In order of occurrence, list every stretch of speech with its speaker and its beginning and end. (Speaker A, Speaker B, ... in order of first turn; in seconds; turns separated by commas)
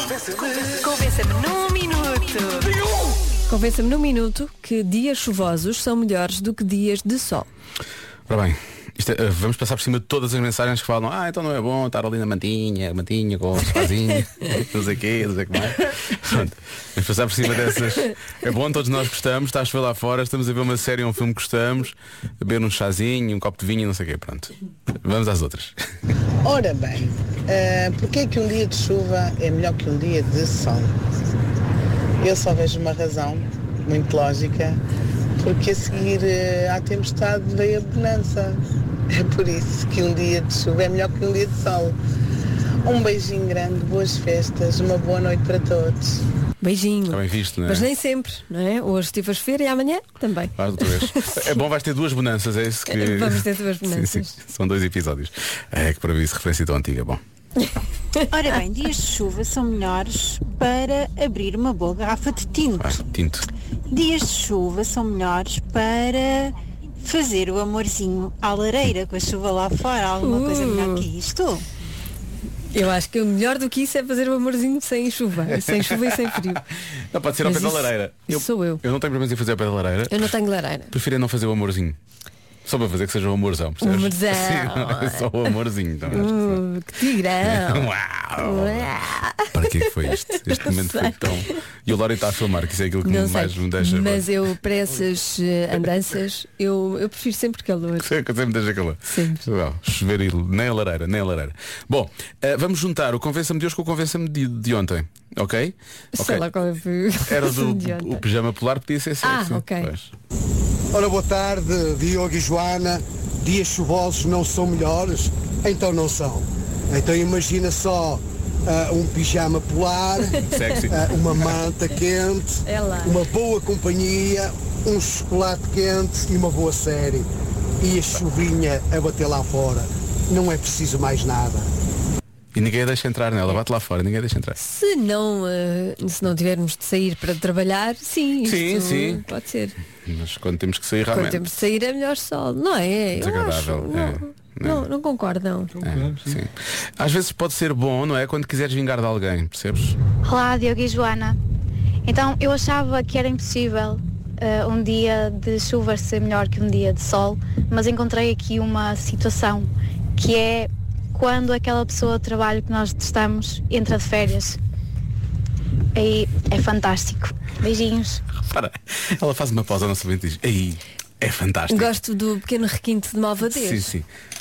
Speaker A: 0.3-2.8, Speaker A: 3.5-7.5, Speaker B: 8.3-25.8, Speaker C: 26.4-30.9, Speaker C: 32.2-34.8, Speaker C: 35.4-38.6, Speaker C: 39.1-42.0, Speaker C: 42.8-46.2, Speaker A: 46.6-51.6, Speaker B: 47.1-47.9, Speaker B: 50.6-57.2, Speaker A: 52.9-54.4, Speaker D: 58.3-63.0, Speaker B: 62.8-63.5, Speaker D: 63.9-71.7, Speaker A: 70.2-71.1, Speaker A: 72.7-76.6, Speaker B: 75.7-76.4, Speaker B: 77.1-80.3, Speaker A: 77.4-78.8, Speaker A: 80.1-80.9, Speaker B: 80.9-82.0, Speaker B: 82.7-86.6, Speaker A: 83.8-85.5, Speaker A: 86.1-91.5, Speaker B: 87.4-88.9, Speaker B: 89.5-94.3, Speaker A: 93.0-98.1, Speaker B: 98.0-106.5, Speaker A: 99.0-99.5, Speaker A: 106.2-108.2, Speaker B: 107.3-110.1, Speaker A: 109.2-109.9, Speaker E: 110.9-127.3, Speaker B: 120.4-121.0, Speaker A: 122.7-123.2, Speaker E: 127.8-131.7, Speaker B: 132.6-134.6, Speaker A: 134.6-139.8, Speaker B: 138.4-139.2, Speaker B: 140.1-141.6, Speaker A: 141.1-145.8, Speaker B: 143.2-144.8, Speaker B: 145.8-150.0, Speaker F: 150.2-151.4, Speaker F: 152.1-164.6, Speaker F: 165.9-168.2, Speaker B: 168.4-171.9, Speaker A: 171.7-173.9, Speaker B: 173.5-174.1